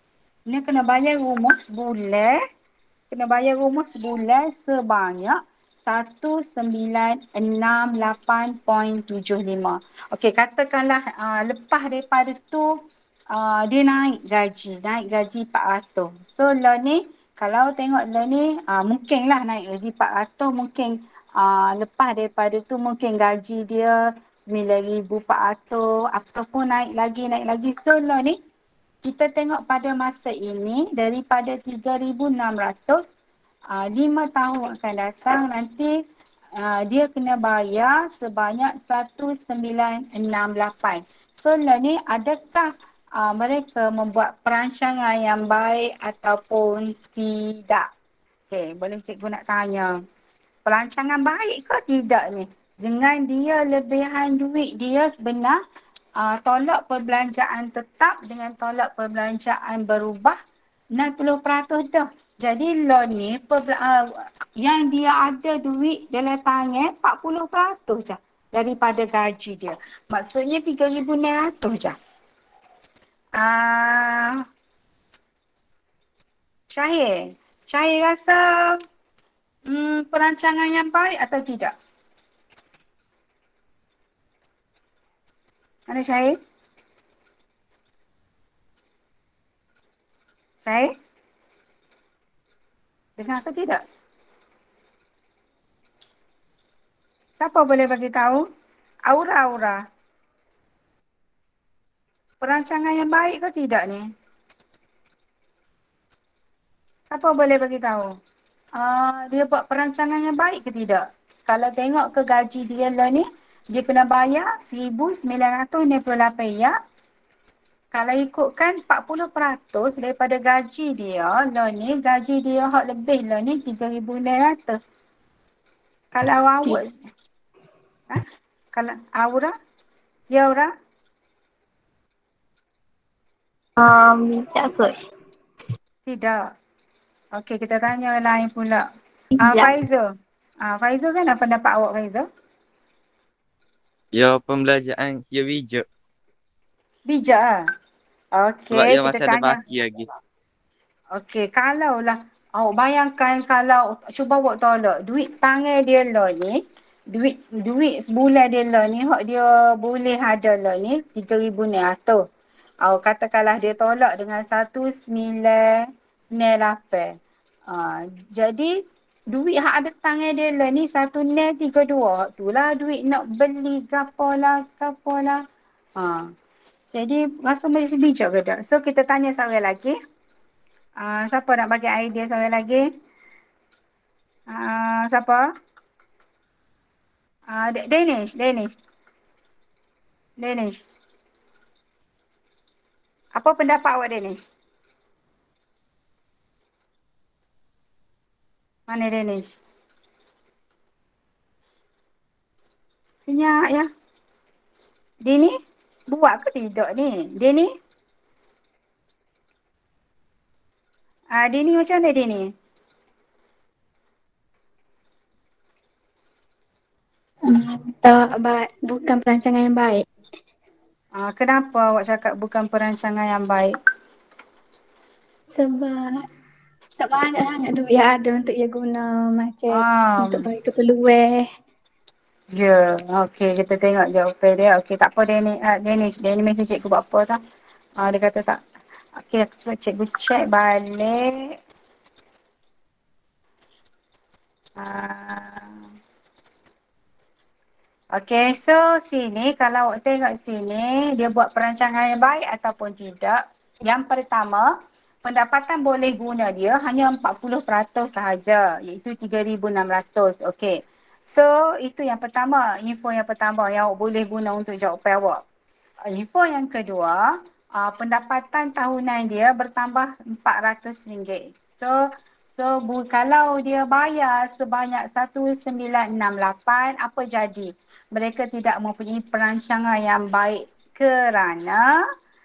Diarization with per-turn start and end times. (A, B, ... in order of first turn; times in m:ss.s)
0:00.5-0:02.4 A
0:03.1-0:12.7 A
0:13.3-0:28.4 A
0:29.0-0:33.0 A
0:33.7-0:36.0 A
0:36.6-0:47.9 A
0:48.5-0:49.9 A
0:50.6-0:55.6 A
0:56.2-1:00.4 A
1:00.9-1:12.0 A
1:13.4-1:14.4 A
1:16.7-1:18.8 A
1:19.7-1:21.7 A
1:25.9-1:26.3 A
1:30.6-1:30.9 A
1:33.2-1:33.8 A
1:37.4-1:38.4 A
1:39.1-1:39.8 A
1:42.4-1:44.0 A
1:47.1-1:48.1 A
1:48.8-1:56.7 A
1:57.9-2:04.8 A
2:06.1-2:06.9 A
2:08.7-2:09.5 A
2:10.3-2:10.7 A
2:13.8-2:14.9 B
2:16.0-2:16.5 A
2:17.3-2:18.8 A
2:19.4-2:19.7 B
2:19.4-2:20.1 A
2:20.6-2:22.2 A
2:24.1-2:25.8 C
2:27.0-2:27.6 A
2:28.4-2:29.6 A
2:28.7-2:30.1 C
2:31.1-2:36.6 A
2:37.1-2:42.2 A
2:42.8-2:47.1 A
2:47.7-2:48.8 A
2:49.3-2:55.4 A
2:56.0-2:56.3 A
2:56.9-3:00.0 A
3:01.0-3:02.9 A
3:04.5-3:05.4 A
3:07.5-3:08.8 A
3:10.4-3:10.9 A
3:13.4-3:14.5 A
3:18.9-3:19.6 A
3:23.2-3:23.9 A
3:25.2-3:25.5 A
3:26.1-3:27.7 A
3:31.4-3:32.5 A
3:37.4-3:40.0 B
3:41.2-3:43.7 A
3:45.6-3:46.2 B
3:47.0-3:51.4 B
3:49.7-3:50.4 A
3:52.5-3:57.4 A
3:58.0-3:58.6 A
3:59.1-4:01.5 A
4:04.8-4:05.8 A
4:08.1-4:14.7 A
4:15.2-4:25.4 A
4:26.1-4:41.8 A